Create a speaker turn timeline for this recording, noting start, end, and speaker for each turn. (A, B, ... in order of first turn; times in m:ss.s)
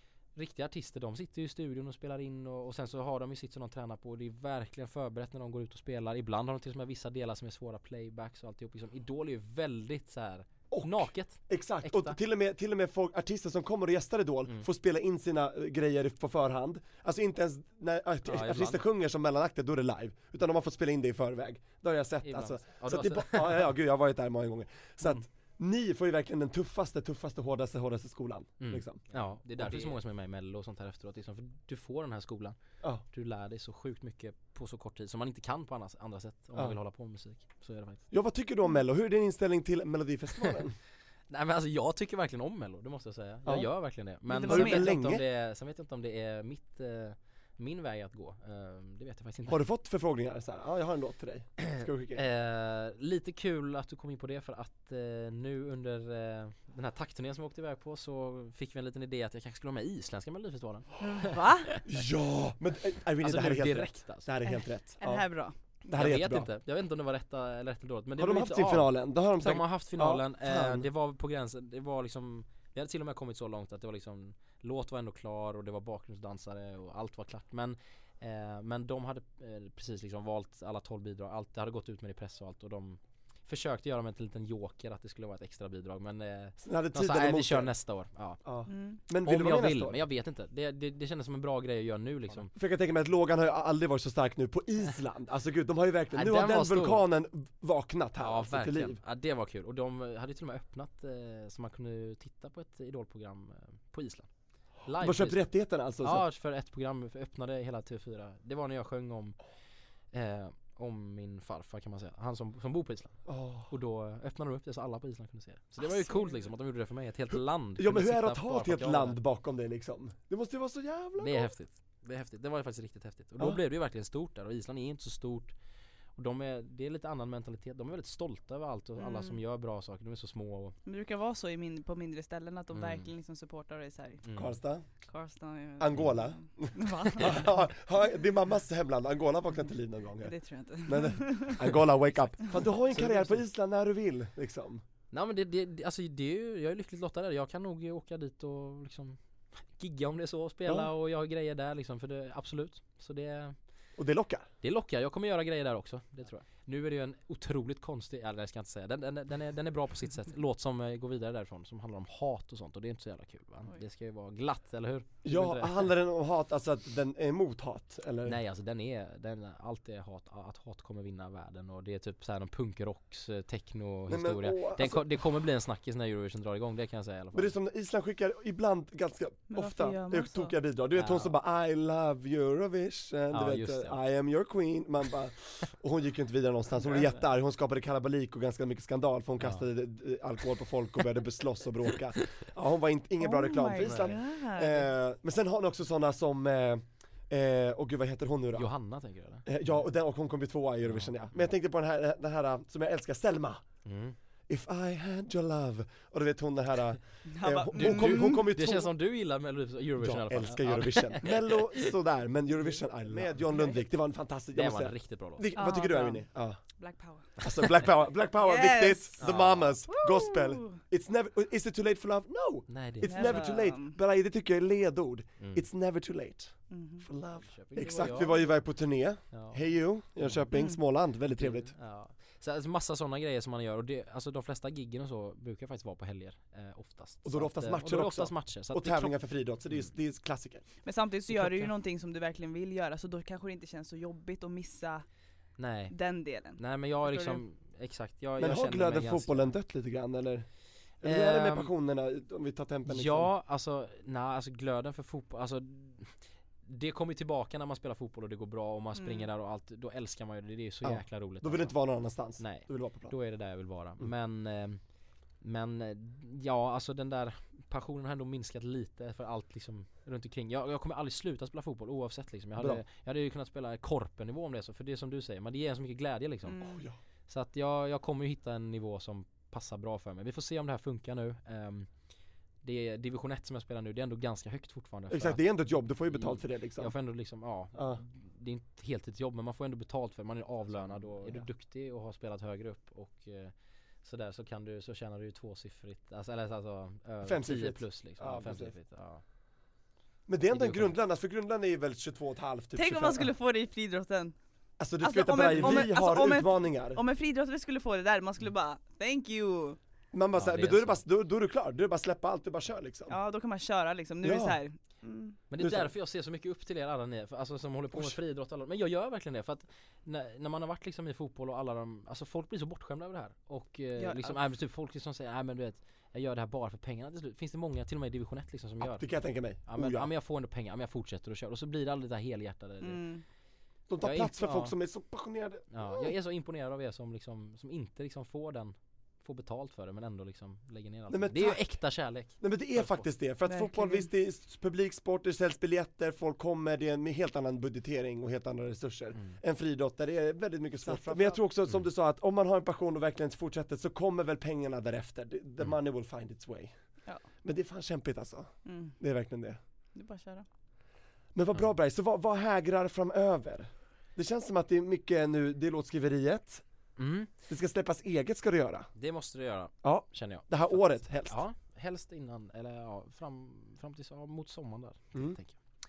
0:00.3-0:12.2 A
0:10.7-0:30.0 B
0:18.2-0:18.8 A
0:22.2-0:23.7 A
0:28.6-0:32.6 A
0:33.1-0:38.0 A
0:38.1-0:40.8 B
0:41.3-0:49.6 A
0:43.4-0:43.7 B
0:44.3-0:44.9 C
0:44.4-0:45.2 B
0:49.5-0:52.2 B
0:51.6-1:01.8 A
1:01.0-1:01.7 C
1:01.8-1:05.3 B
1:03.2-1:04.3 A
1:04.4-1:05.5 C
1:05.9-1:06.5 B
1:05.9-1:28.4 A
1:08.2-1:10.9 B
1:26.6-1:27.7 B
1:28.4-1:30.0 B
1:28.7-1:29.0 C
1:29.2-1:32.5 A
1:32.5-1:39.0 B
1:36.1-1:37.0 A
1:38.2-1:44.3 A
1:44.8-1:45.5 A
1:45.0-1:46.2 B
1:46.0-1:49.4 A
1:50.1-1:59.2 A
1:53.2-1:53.7 B
1:55.8-1:56.5 C
1:57.3-2:01.5 B
2:01.2-2:05.5 A
2:06.2-2:10.8 A
2:09.0-2:09.4 C
2:10.8-2:14.2 C
2:12.7-2:13.1 A
2:14.2-2:14.6 A
2:14.3-2:14.8 B
2:15.1-2:17.5 C
2:15.8-2:20.3 B
2:20.2-2:21.8 C
2:20.8-2:24.8 B
2:22.9-2:23.4 A
2:25.1-2:29.2 A
2:29.8-2:33.6 A
2:30.6-2:30.9 B
2:34.0-2:34.5 B
2:34.6-2:45.9 A
2:45.2-2:48.4 B
2:48.2-2:57.5 A
2:54.1-2:55.3 B
2:57.3-3:18.7 B
2:59.5-3:00.5 C
3:01.0-3:01.3 A
3:03.3-3:04.0 A
3:06.8-3:07.2 A
3:09.4-3:09.7 A
3:13.2-3:14.9 C
3:13.8-3:14.2 A
3:18.5-3:19.5 A
3:19.4-3:23.6 B
3:20.8-3:21.5 A
3:23.8-3:24.2 A
3:24.5-3:28.9 B
3:27.3-3:28.4 C
3:27.7-3:31.5 A
3:30.0-3:36.6 B
3:33.5-3:33.8 C
3:34.5-3:35.5 A
3:35.6-3:37.4 C
3:37.4-3:51.7 B
3:38.4-3:39.2 C
3:39.2-3:39.8 A
3:39.9-3:40.8 C
3:42.7-3:43.4 A
3:43.0-3:44.0 C
3:45.4-3:45.7 A
3:46.7-3:47.0 C
3:47.4-3:48.6 A
3:49.3-3:50.5 A
3:50.5-3:50.8 C
3:51.3-3:59.2 A
3:57.2-4:00.6 B
4:00.8-4:05.0 C
4:01.3-4:01.7 A
4:05.6-4:06.0 A
4:05.9-4:07.4 C
4:06.6-4:09.5 A
4:08.4-4:10.5 B
4:11.0-4:13.3 B
4:11.0-4:11.7 A
4:12.9-4:21.8 A
4:19.0-4:19.3 C
4:20.8-4:23.2 B
4:22.4-4:24.8 A
4:25.4-4:36.6 A
4:32.6-4:32.8 B
4:36.5-4:36.8 C
4:36.6-4:37.0 B
4:37.3-4:41.9 A
4:42.6-4:45.4 A
4:45.1-4:46.9 B
4:46.1-4:59.2 A
4:47.7-4:48.0 B
4:50.7-4:51.4 B
4:57.2-4:58.7 B
5:00.3-5:03.3 B
5:00.5-5:01.0 A
5:02.8-5:04.4 C
5:04.8-5:07.0 B
5:05.0-5:09.8 C
5:05.6-5:05.9 A
5:10.1-5:13.2 B
5:10.3-5:11.0 A
5:13.1-5:15.4 C
5:14.2-5:14.6 B
5:15.5-5:29.1 A
5:15.6-5:15.9 B
5:17.9-5:18.2 B
5:24.0-5:24.4 C
5:28.8-5:30.1 B
5:29.6-5:33.0 A
5:32.8-5:33.2 C
5:33.9-5:36.1 B
5:34.0-5:34.7 A
5:35.7-5:43.0 A
5:41.1-5:56.7 B
5:43.4-5:44.1 C
5:49.1-5:49.4 A
5:50.9-5:51.4 C
5:57.4-5:59.6 B
5:58.6-5:59.0 C
5:59.9-6:00.4 C
6:01.3-6:06.6 B
6:07.0-6:07.3 A
6:07.5-6:08.9 B
6:09.0-6:15.6 A
6:09.8-6:11.4 B